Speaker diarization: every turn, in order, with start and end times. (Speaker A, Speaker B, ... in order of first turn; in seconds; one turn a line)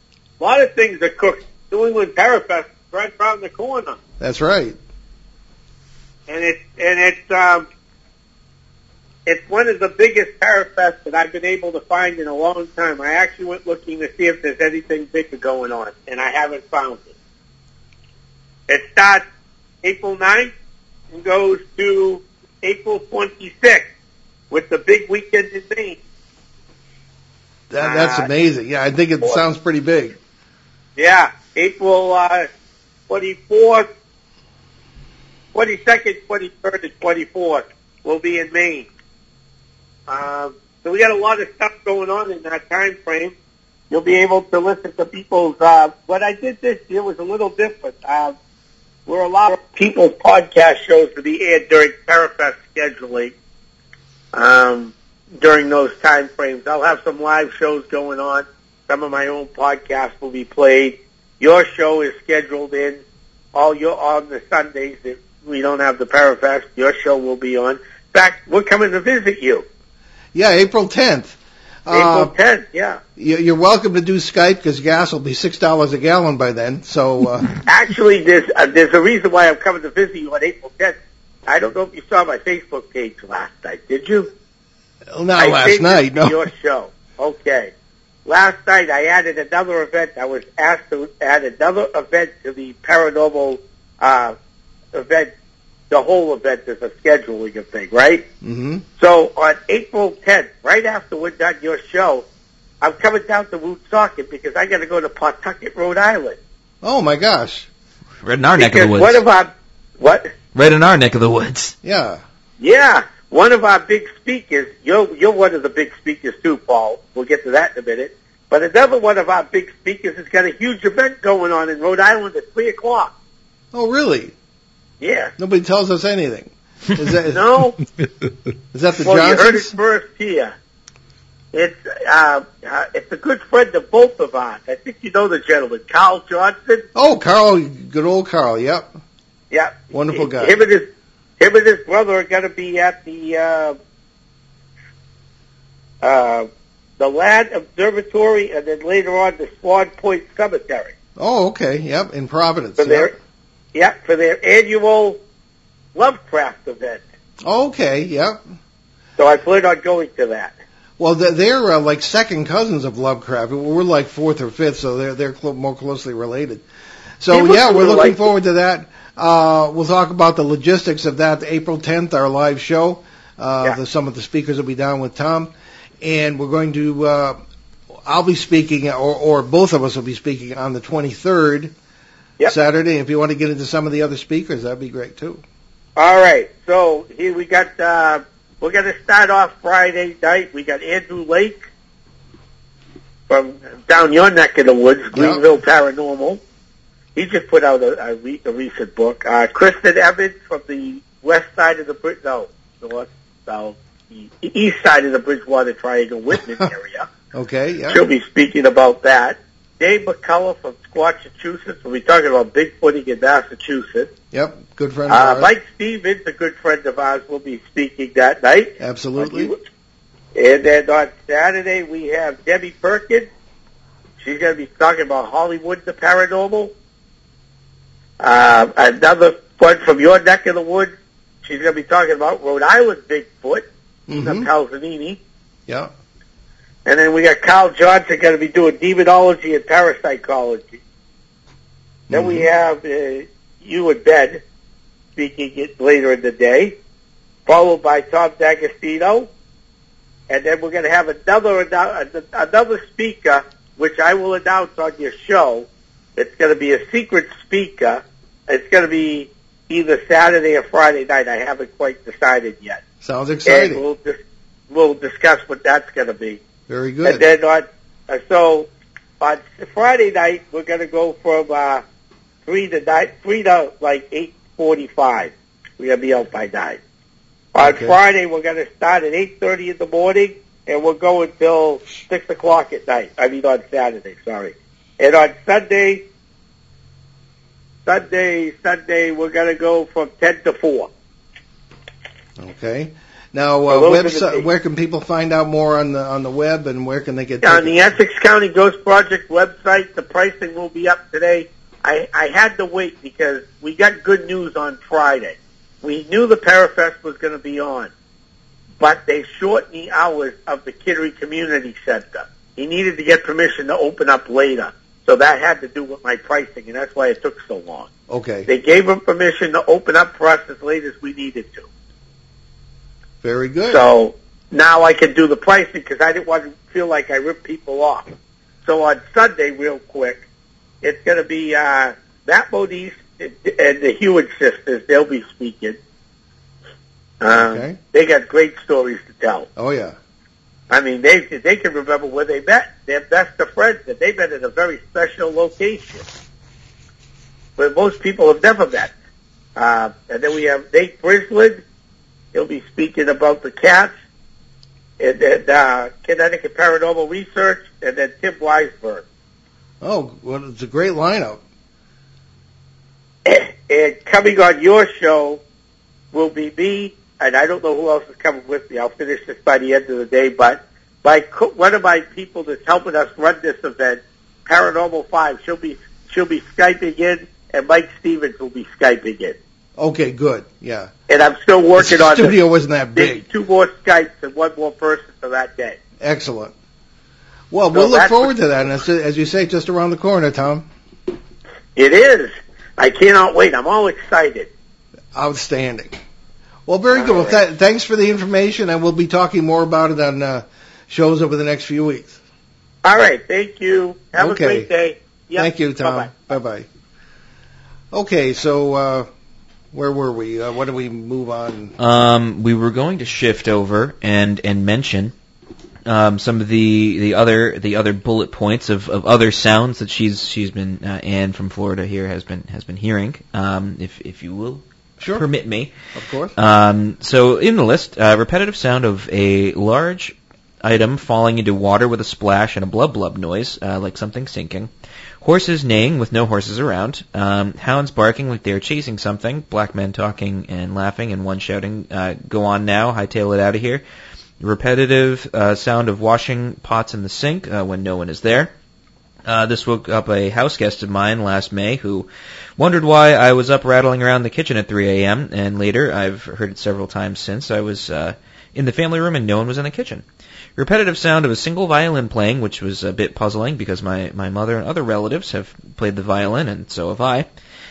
Speaker A: 0.4-4.0
Speaker B: 4.2-4.8
Speaker A: 6.3-7.7
Speaker A: 9.2-17.1
Speaker A: 18.7-19.2
Speaker A: 19.8-20.5
Speaker A: 21.1-23.9
Speaker A: 24.5-26.0
Speaker B: 27.7-30.1
Speaker A: 27.8-28.3
Speaker A: 31.0-32.5
Speaker A: 33.1-33.9
Speaker A: 35.5-38.9
Speaker A: 40.1-43.3
Speaker A: 43.9-48.3
Speaker A: 49.0-53.3
Speaker A: 54.3-63.0
Speaker A: 63.5-69.7
Speaker B: 70.3-72.3
Speaker A: 71.9-73.0
Speaker B: 73.2-77.6
Speaker A: 77.7-84.3
Speaker B: 85.1-86.4
Speaker A: 85.4-87.7
Speaker A: 88.2-94.3
Speaker A: 94.9-95.3
Speaker A: 95.9-98.2
Speaker B: 98.4-98.8
Speaker A: 99.0-102.2
Speaker A: 102.8-106.4
Speaker B: 106.8-107.7
Speaker C: 108.2-109.2
Speaker A: 108.6-110.3
Speaker C: 110.5-111.7
Speaker B: 111.8-112.2
Speaker A: 112.6-123.1
Speaker B: 123.7-124.3
Speaker A: 125.0-125.3
Speaker B: 125.4-127.6
Speaker A: 127.3-127.8
Speaker B: 128.7-129.7
Speaker A: 129.0-130.5
Speaker A: 131.5-136.8
Speaker B: 136.9-138.9
Speaker A: 139.5-140.8
Speaker B: 139.9-140.6
Speaker A: 141.4-143.8
Speaker A: 146.0-146.5
Speaker A: 147.0-150.9
Speaker B: 151.2-153.1
Speaker A: 152.8-153.1
Speaker A: 153.7-155.2
Speaker A: 155.9-157.0
Speaker B: 157.4-158.4
Speaker A: 159.2-160.5
Speaker B: 161.0-166.6
Speaker B: 167.2-177.4
Speaker A: 167.3-168.2
Speaker B: 178.1-181.7
Speaker B: 182.5-185.4
Speaker A: 185.9-191.6
Speaker A: 193.3-196.4
Speaker B: 195.1-195.4
Speaker A: 197.1-207.1
Speaker B: 207.3-208.0
Speaker A: 207.9-214.1
Speaker B: 214.3-215.5
Speaker A: 215.1-219.6
Speaker B: 218.8-219.5
Speaker A: 220.3-223.3
Speaker A: 224.2-226.7
Speaker A: 228.2-235.2
Speaker B: 234.1-234.5
Speaker A: 236.8-240.8
Speaker B: 242.1-242.5
Speaker A: 242.1-244.4
Speaker A: 245.2-246.8
Speaker A: 247.4-249.3
Speaker A: 250.3-262.8
Speaker B: 263.0-263.8
Speaker A: 263.4-264.2
Speaker A: 264.7-266.4
Speaker B: 266.7-267.2
Speaker A: 267.0-268.7
Speaker A: 269.2-271.8
Speaker A: 272.4-276.8
Speaker A: 277.5-286.0
Speaker B: 277.6-278.0
Speaker A: 287.9-290.9
Speaker B: 292.4-297.9
Speaker A: 293.7-294.5
Speaker A: 297.4-307.9
Speaker A: 308.8-317.9
Speaker B: 318.1-318.5
Speaker A: 318.5-321.7
Speaker B: 323.2-323.8
Speaker A: 323.7-328.1
Speaker A: 328.6-330.2
Speaker A: 330.8-335.8
Speaker A: 337.2-339.5
Speaker B: 337.3-337.8
Speaker B: 339.6-339.9
Speaker A: 340.7-346.0
Speaker A: 347.6-348.9
Speaker A: 349.6-351.6
Speaker A: 352.3-353.9
Speaker A: 355.0-359.0
Speaker B: 359.8-361.4
Speaker A: 363.2-365.4
Speaker A: 366.1-379.4
Speaker B: 379.8-380.9
Speaker A: 381.1-382.4
Speaker B: 381.8-383.2
Speaker A: 382.9-385.8
Speaker B: 386.0-386.5
Speaker B: 387.5-390.7
Speaker A: 387.7-388.3
Speaker A: 391.8-394.5
Speaker B: 395.1-396.0
Speaker B: 396.7-402.2
Speaker A: 396.9-397.4
Speaker A: 402.8-406.1
Speaker B: 404.1-404.7
Speaker B: 405.4-406.6
Speaker B: 407.9-409.1
Speaker B: 409.7-411.8
Speaker C: 411.8-415.1
Speaker C: 415.9-425.7
Speaker B: 425.0-425.2
Speaker B: 425.9-426.3
Speaker C: 426.4-434.7
Speaker C: 435.2-443.8
Speaker C: 444.4-448.5
Speaker C: 449.2-460.0
Speaker C: 460.6-467.3